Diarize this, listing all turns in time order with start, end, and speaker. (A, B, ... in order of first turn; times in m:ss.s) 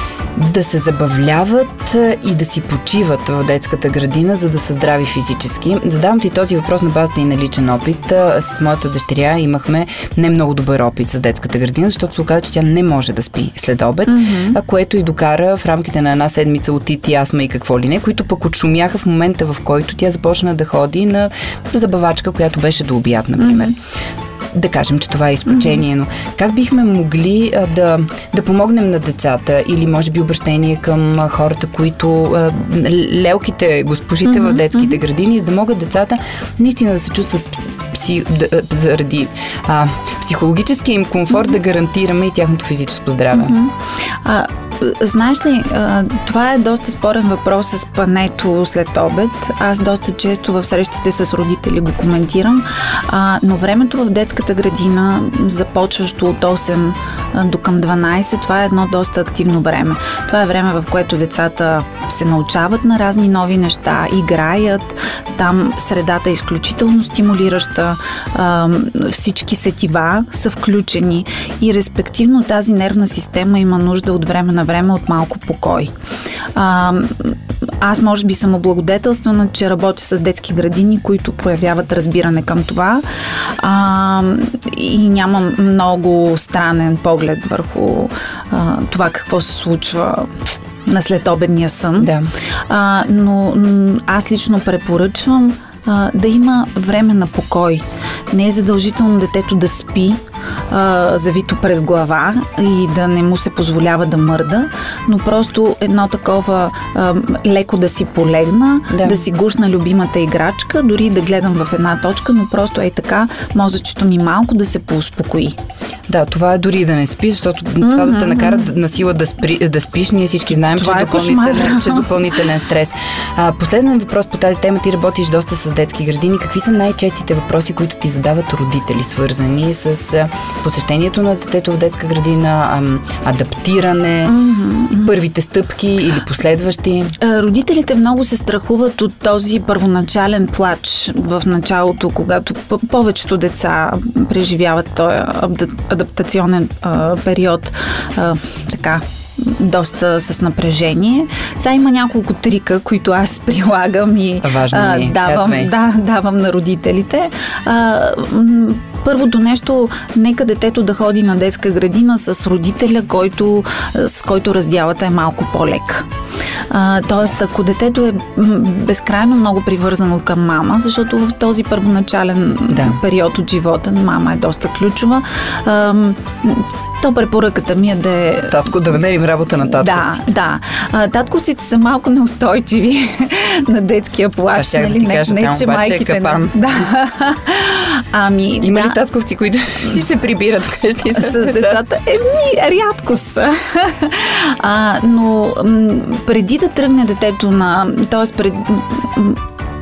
0:00.4-0:23.8 A
0:14.1-0:14.6 B
0:23.4-0:23.7 B
0:24.5-0:43.5 A
0:34.3-0:35.0 B
0:43.3-1:15.9 B
1:16.6-1:23.0 B
1:23.6-1:32.1 B
1:32.0-1:32.3 A
1:32.7-1:55.6 B
1:48.9-1:49.2 A
1:56.1-2:14.4 A
1:57.8-1:58.7 B
2:00.7-2:02.4 B
2:14.3-2:15.2 B
2:15.0-2:17.1 A
2:17.2-2:46.1 B
2:34.4-2:35.7 A
2:46.7-2:58.6 B
2:52.7-2:53.0 A
2:58.5-3:00.3 A
2:59.6-3:09.0 B
3:04.5-3:06.6 A
3:08.6-3:11.8 A
3:11.2-3:19.4 B